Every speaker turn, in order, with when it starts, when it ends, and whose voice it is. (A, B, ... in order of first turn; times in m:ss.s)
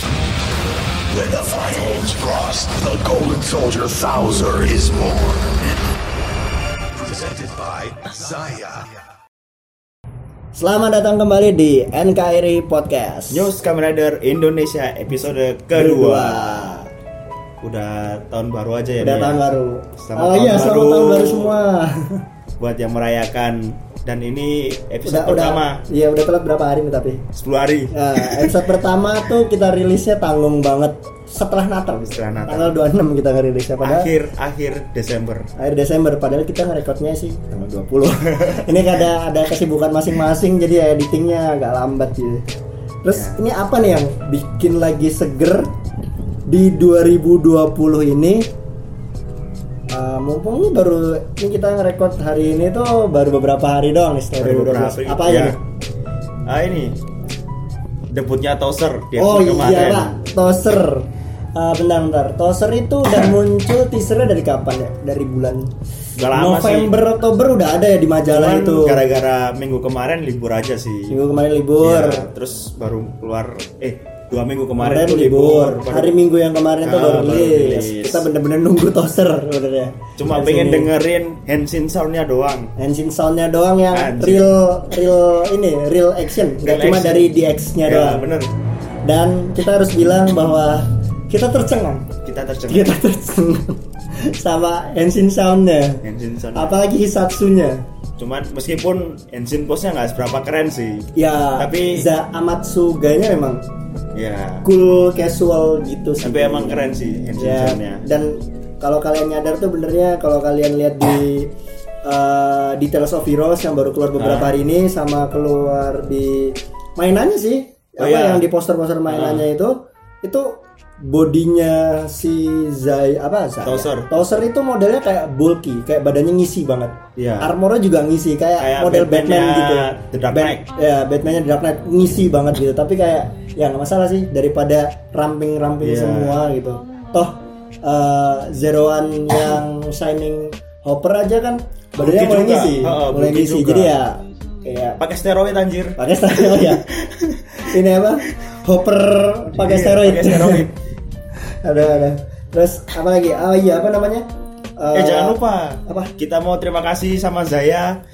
0:01.1-0:05.8 A
0:07.0-0:09.0 A
0:10.5-0:13.5 B
0:13.3-0:16.5 C
0:15.7-0:16.9 B
0:17.6-0:19.4 C
0:19.0-0:22.2 B
0:20.0-0:21.6 C
0:22.6-0:25.8 C
0:25.0-0:27.2 B
0:27.3-0:28.6 C
0:27.9-0:34.1 B
0:31.9-0:32.8 C
0:33.8-0:35.5 C
0:35.6-0:42.4 B
0:38.3-0:38.8 C
0:43.0-0:45.7 B
0:43.1-0:43.4 C
0:46.5-0:48.5 B
0:49.9-0:55.6 B
0:54.4-0:55.6 C
0:56.5-0:57.0 C
0:58.1-1:00.2 C
0:59.2-1:05.7 B
1:06.2-1:06.9 C
1:06.3-1:09.0 B
1:08.3-1:11.2 C
1:11.1-1:12.3 B
1:11.8-1:16.2 C
1:14.8-1:20.9 B
1:16.8-1:18.3 C
1:20.2-1:22.7 C
1:22.8-1:28.3 B
1:23.9-1:24.5 C
1:26.6-1:27.3 C
1:27.8-1:28.5 C
1:29.0-1:32.1 B
1:32.2-1:33.0 C
1:32.7-1:37.8 B
1:36.0-1:36.8 C
1:38.2-1:42.1 C
1:41.2-1:43.6 B
1:44.1-1:44.7 C
1:44.6-1:51.5 B
1:46.2-1:48.0 C
1:52.0-2:25.0 B
1:54.2-1:54.5 C
1:58.0-1:58.4 C
1:59.1-1:59.5 C
2:03.6-2:04.1 C
2:07.2-2:07.5 C
2:08.6-2:10.7 C
2:15.8-2:16.4 C
2:22.0-2:24.0 C
2:25.0-2:27.6 C
2:26.0-2:26.9 B
2:27.6-2:30.7 B
2:29.5-2:30.8 C
2:31.6-2:36.1 B
2:34.9-2:38.0 C